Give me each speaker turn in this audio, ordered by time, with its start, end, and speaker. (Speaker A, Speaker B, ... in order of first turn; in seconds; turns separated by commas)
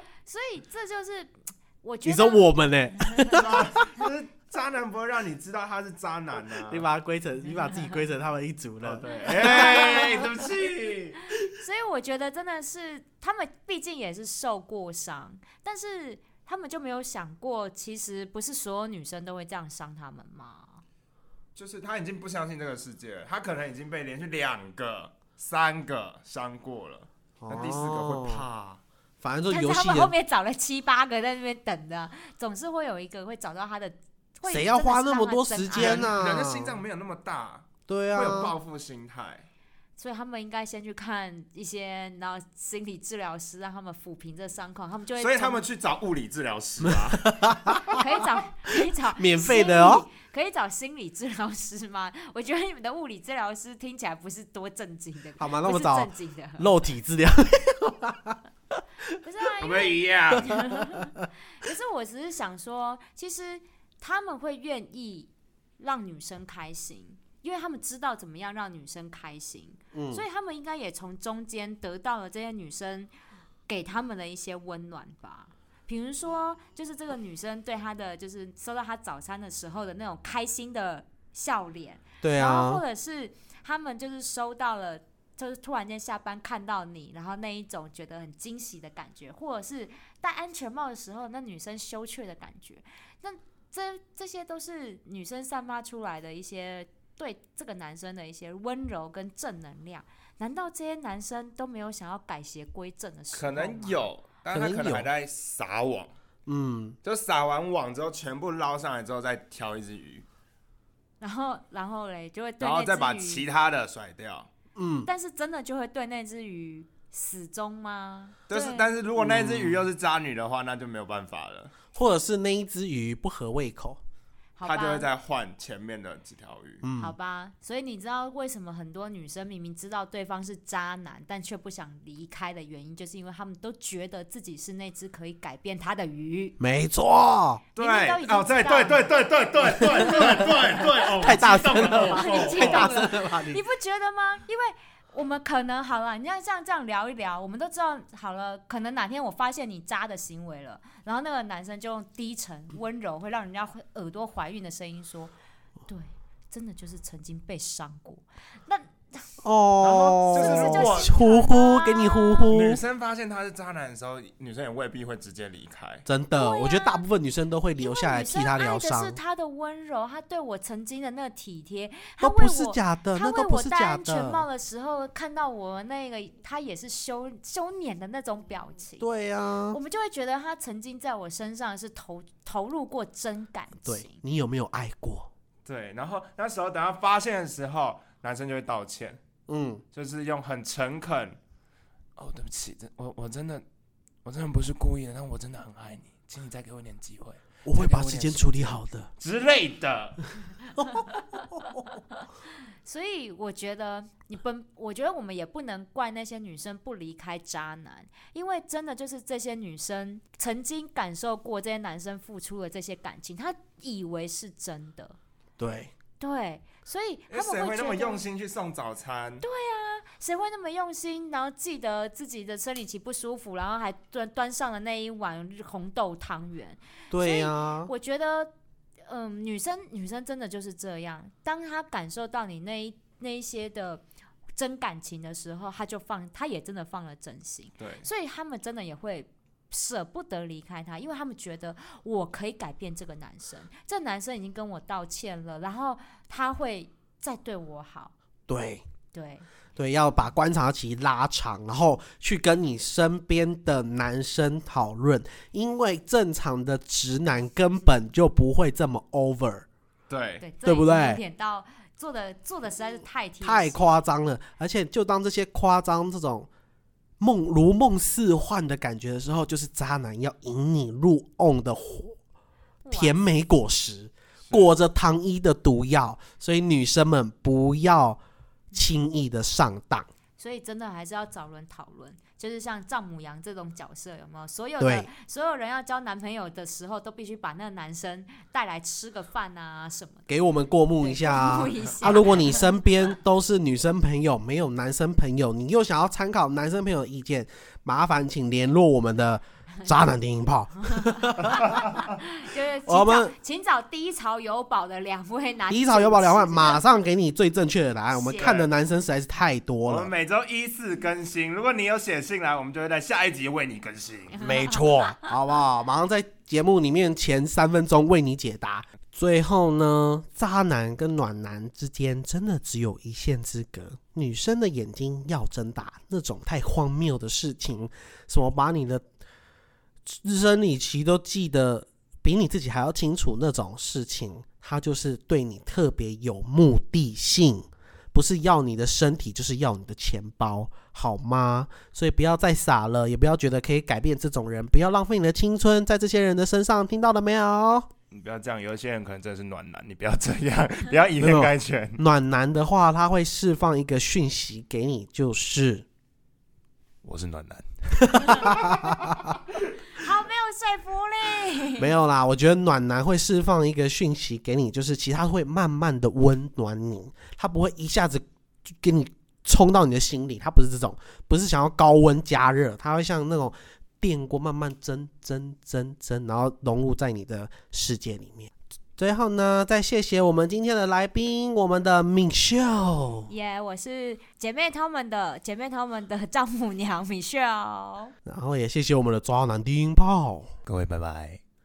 Speaker A: 0.3-2.5, Speaker B: 2.0-3.8, Speaker C: 3.2-6.9, Speaker B: 6.7-10.3, Speaker C: 8.8-11.2, Speaker A: 9.4-10.2, Speaker A: 11.5-20.8, Speaker C: 21.6-28.8, Speaker B: 27.4-28.5, Speaker B: 29.2-30.1, Speaker A: 29.5-36.2, Speaker B: 34.5-36.8, Speaker C: 35.7-39.5, Speaker B: 37.9-38.5, Speaker A: 40.0-45.6, Speaker C: 45.2-48.0, Speaker B: 46.8-48.0, Speaker A: 47.9-56.7, Speaker B: 49.2-50.1, Speaker B: 55.4-58.4, Speaker A: 59.2-73.1, Speaker C: 59.6-60.6, Speaker B: 69.9-70.2, Speaker A: 73.7-104.0, Speaker B: 82.2-82.8, Speaker C: 103.3-106.1, Speaker B: 104.5-105.1, Speaker B: 106.5-107.0, Speaker C: 107.0-110.3, Speaker A: 111.2-113.5, Speaker C: 112.6-114.5, Speaker B: 114.8-115.1, Speaker A: 115.0-118.9, Speaker C: 118.5-121.7, Speaker B: 119.2-119.9, Speaker B: 121.9-124.0, Speaker A: 124.6-125.1, Speaker C: 124.6-126.8, Speaker B: 126.8-127.2, Speaker A: 127.0-136.6, Speaker B: 136.6-137.6, Speaker C: 137.8-143.0, Speaker A: 137.8-139.1, Speaker A: 139.7-155.3, Speaker B: 140.1-143.6, Speaker A: 155.9-159.2, Speaker B: 159.4-162.8, Speaker C: 159.8-161.1, Speaker A: 160.3-162.5, Speaker C: 162.5-166.1, Speaker B: 166.1-169.2, Speaker A: 166.4-167.0, Speaker A: 167.8-179.1, Speaker B: 172.2-174.5, Speaker B: 179.0-179.8, Speaker A: 179.7-184.2, Speaker B: 183.8-185.3, Speaker C: 185.7-189.2, Speaker B: 189.5-189.8, Speaker C: 189.9-191.4, Speaker C: 192.2-193.6, Speaker C: 194.2-200.3, Speaker B: 197.7-199.1, Speaker B: 200.8-201.8, Speaker A: 202.8-215.2, Speaker B: 215.6-215.9, Speaker A: 216.2-218.2, Speaker C: 217.3-219.4, Speaker A: 219.4-228.5, Speaker B: 227.1-227.9, Speaker A: 229.1-234.0, Speaker A: 234.6-248.1, Speaker C: 237.8-238.1, Speaker B: 248.5-248.8, Speaker A: 249.1-249.4, Speaker B: 249.8-259.7, Speaker C: 260.1-260.5, Speaker A: 260.4-263.8, Speaker B: 260.6-261.2, Speaker B: 263.4-266.5, Speaker B: 267.2-272.2, Speaker A: 272.8-273.2, Speaker B: 272.9-278.2, Speaker B: 278.8-280.1, Speaker A: 280.4-290.3, Speaker B: 284.8-285.1, Speaker B: 290.3-301.6, Speaker A: 291.0-292.7, Speaker A: 300.9-306.8, Speaker C: 301.5-302.1, Speaker B: 302.9-303.3, Speaker B: 305.7-310.1, Speaker A: 308.1-308.5, Speaker C: 308.4-308.7, Speaker C: 309.9-314.5, Speaker A: 314.4-315.2, Speaker B: 314.4-329.1, Speaker B: 330.1-347.9, Speaker C: 348.1-352.0, Speaker B: 351.2-355.9, Speaker C: 357.0-358.6, Speaker B: 358.1-358.7, Speaker A: 358.4-358.8, Speaker A: 359.9-361.9, Speaker B: 361.8-383.3, Speaker A: 383.3-388.1, Speaker B: 388.3-390.5, Speaker C: 390.7-391.4